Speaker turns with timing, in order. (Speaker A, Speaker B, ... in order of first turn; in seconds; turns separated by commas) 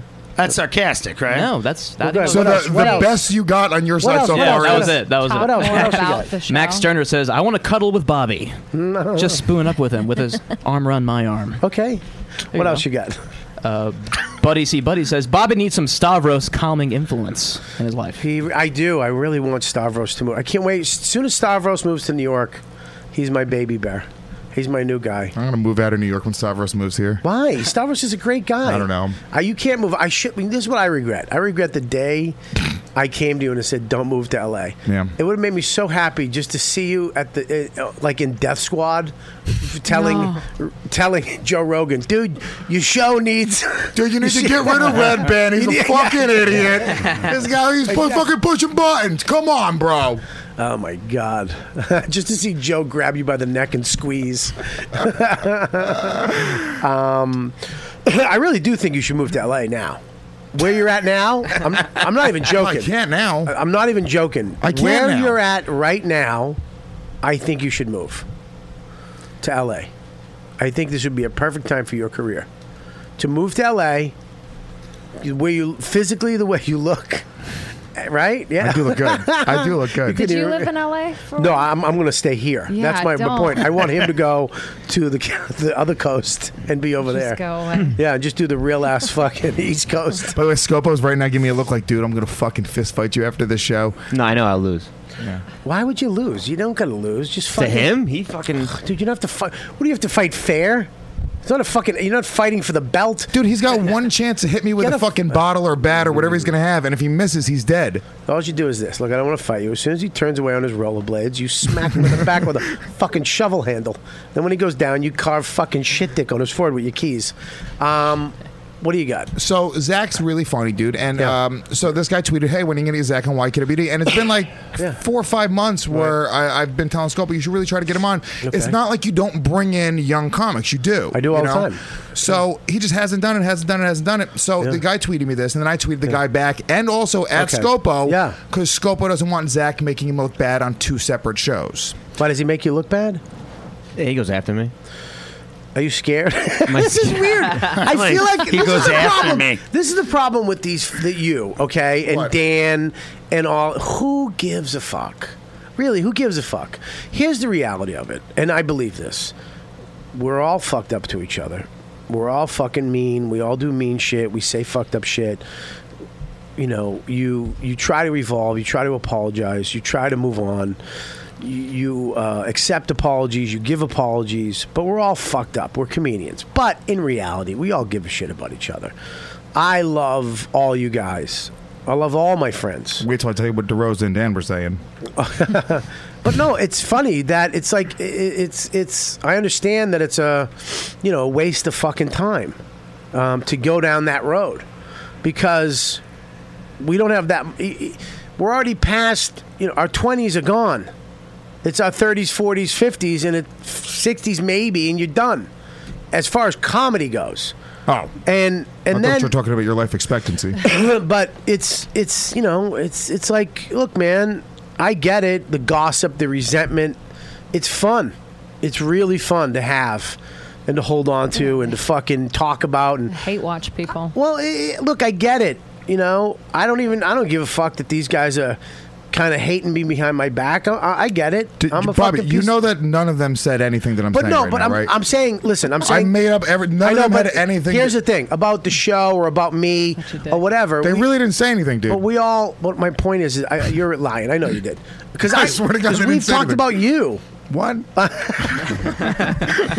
Speaker A: 0.4-1.5, Speaker B: 1.3-3.0, Speaker C: 2.0-3.2, Speaker D: 2.3-5.0, Speaker E: 2.7-3.0, Speaker C: 4.0-6.3, Speaker B: 4.3-8.6, Speaker E: 5.1-6.9, Speaker C: 8.7-9.4, Speaker B: 9.2-11.6, Speaker C: 11.6-13.2, Speaker B: 12.5-12.8, Speaker B: 13.6-18.2, Speaker C: 18.2-22.6, Speaker C: 23.1-25.4, Speaker D: 25.4-27.2, Speaker C: 27.2-32.4, Speaker D: 28.6-29.2, Speaker C: 33.0-47.1, Speaker D: 34.9-35.1, Speaker E: 39.9-40.4, Speaker D: 43.9-50.2, Speaker C: 47.9-48.3, Speaker C: 50.6-60.0, Speaker D: 56.0-56.6, Speaker C: 60.5-62.9, Speaker D: 62.4-63.5, Speaker C: 63.5-66.6, Speaker D: 64.6-65.4, Speaker C: 67.2-68.3, Speaker C: 69.4-69.9, Speaker C: 70.6-72.5, Speaker C: 73.2-74.1, Speaker C: 75.2-77.2, Speaker C: 78.0-80.7, Speaker D: 78.6-80.2, Speaker E: 80.1-81.7, Speaker C: 81.4-90.4, Speaker E: 82.7-83.9, Speaker E: 87.0-88.0, Speaker D: 90.3-94.0, Speaker F: 94.1-94.9, Speaker D: 95.2-95.4, Speaker C: 95.6-97.9, Speaker F: 97.5-98.7, Speaker C: 98.7-100.9, Speaker C: 101.5-103.3, Speaker D: 103.3-108.0, Speaker C: 104.8-105.4, Speaker C: 105.9-106.5, Speaker C: 108.3-119.3, Speaker D: 119.4-142.0, Speaker C: 128.4-128.8, Speaker C: 131.1-131.8, Speaker C: 137.3-138.4, Speaker C: 142.2-143.2, Speaker F: 144.0-144.7, Speaker C: 145.8-159.3, Speaker F: 146.7-147.9, Speaker A: 147.8-149.6, Speaker D: 152.1-152.3, Speaker C: 160.1-165.4, Speaker C: 166.6-170.8, Speaker C: 171.4-178.9, Speaker C: 179.6-183.1, Speaker D: 183.0-184.8, Speaker C: 185.2-192.6, Speaker C: 193.1-194.7, Speaker C: 195.2-196.0, Speaker C: 196.8-200.9, Speaker C: 201.6-205.5, Speaker C: 206.1-207.5, Speaker D: 207.9-208.2, Speaker C: 208.2-209.3, Speaker D: 208.9-210.6, Speaker C: 210.6-217.0, Speaker C: 217.5-223.2, Speaker E: 223.1-224.1, Speaker C: 224.1-228.6, Speaker C: 229.1-232.6, Speaker D: 231.6-234.9, Speaker C: 234.1-236.2, Speaker D: 235.8-238.0, Speaker C: 236.8-241.1, Speaker E: 240.0-240.4, Speaker D: 240.8-242.0, Speaker C: 241.9-247.2, Speaker D: 245.2-246.8, Speaker D: 247.5-249.2, Speaker C: 248.0-248.8